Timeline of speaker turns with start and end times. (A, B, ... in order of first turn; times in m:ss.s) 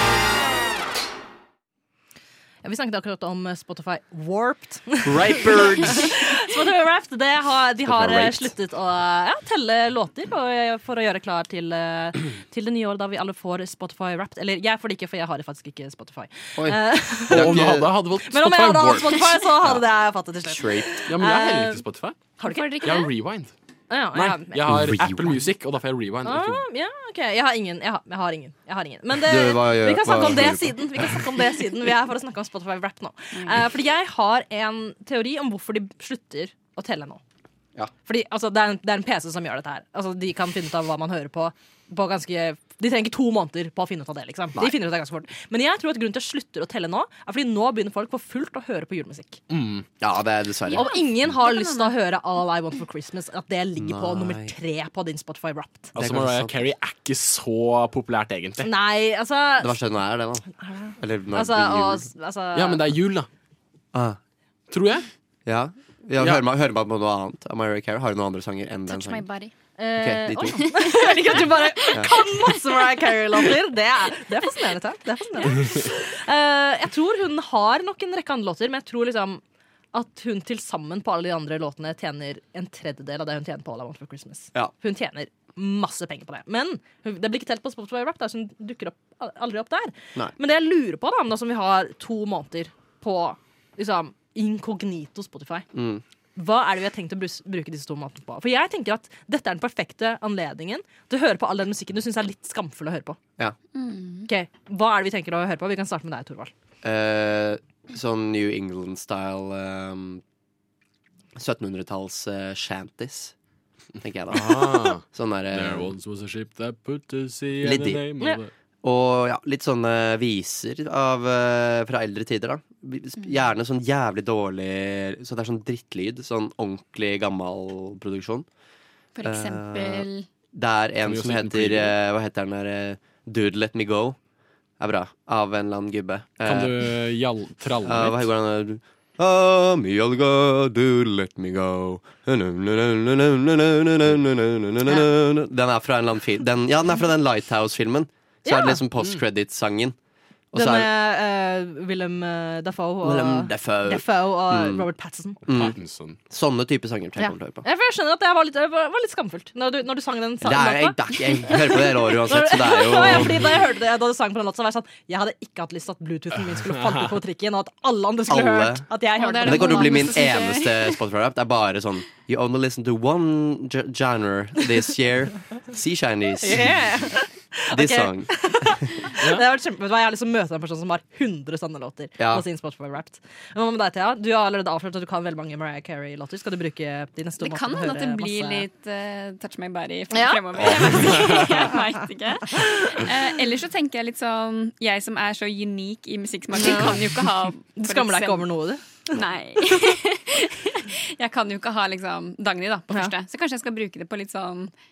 0:02.6-0:21.8 A
0:05.0-0:06.1 B
0:07.9-0:08.5 B
0:16.6-0:17.9 B
0:17.3-0:19.3 C
0:20.4-0:21.0 B
0:21.1-0:22.3 C
0:22.4-0:23.0 A
0:22.4-0:23.1 D
0:22.8-0:23.5 C
0:23.9-0:24.6 A
0:24.1-0:26.6 C
0:24.7-0:25.5 B
0:26.2-0:37.2 A
0:29.2-0:31.2 B
0:33.3-0:33.6 D
0:38.1-0:49.4 A
0:49.5-0:49.9 C
0:50.0-0:50.9 B
0:50.7-0:51.9 D
0:50.7-0:55.9 A
0:53.8-0:54.5 B
0:55.9-0:58.7 C
0:56.0-0:56.5 B
0:58.6-0:59.8 A
0:59.6-1:00.5 B
1:00.5-1:02.8 A
1:01.0-1:02.1 B
1:02.6-1:03.3 C
1:03.9-1:04.2 B
1:04.7-1:05.1 C
1:05.5-1:09.2 B
1:08.9-1:09.5 D
1:09.8-1:19.4 A
1:10.0-1:10.6 B
1:10.6-1:12.2 D
1:19.9-1:35.7 A
1:35.7-1:36.0 B
1:36.4-1:43.2 A
1:43.7-1:44.3 D
1:44.3-1:46.5 A
1:46.8-1:50.2 B
1:51.4-1:53.3 B
1:54.0-1:55.9 B
1:54.3-1:58.5 C
1:57.6-1:58.0 B
1:58.8-2:08.5 B
2:09.2-2:10.3 D
2:09.2-2:14.2 B
2:11.0-2:11.9 C
2:14.8-2:16.8 B
2:16.4-2:18.3 C
2:17.8-2:30.0 B
2:28.4-2:28.8 A
2:30.5-2:30.9 B
2:30.6-2:35.4 A
2:33.0-2:34.9 B
2:35.5-2:35.8 B
2:35.5-2:36.2 C
2:36.3-2:37.6 B
2:37.2-2:50.2 A
2:40.4-2:43.6 B
2:48.3-2:48.9 B
2:49.2-2:51.0 D
2:49.4-2:56.8 B
2:56.4-3:08.7 A
2:57.7-2:58.9 B
3:02.2-3:02.4 B
3:07.4-3:18.5 D
3:10.1-3:11.8 A
3:16.6-3:19.0 A
3:19.1-3:24.7 D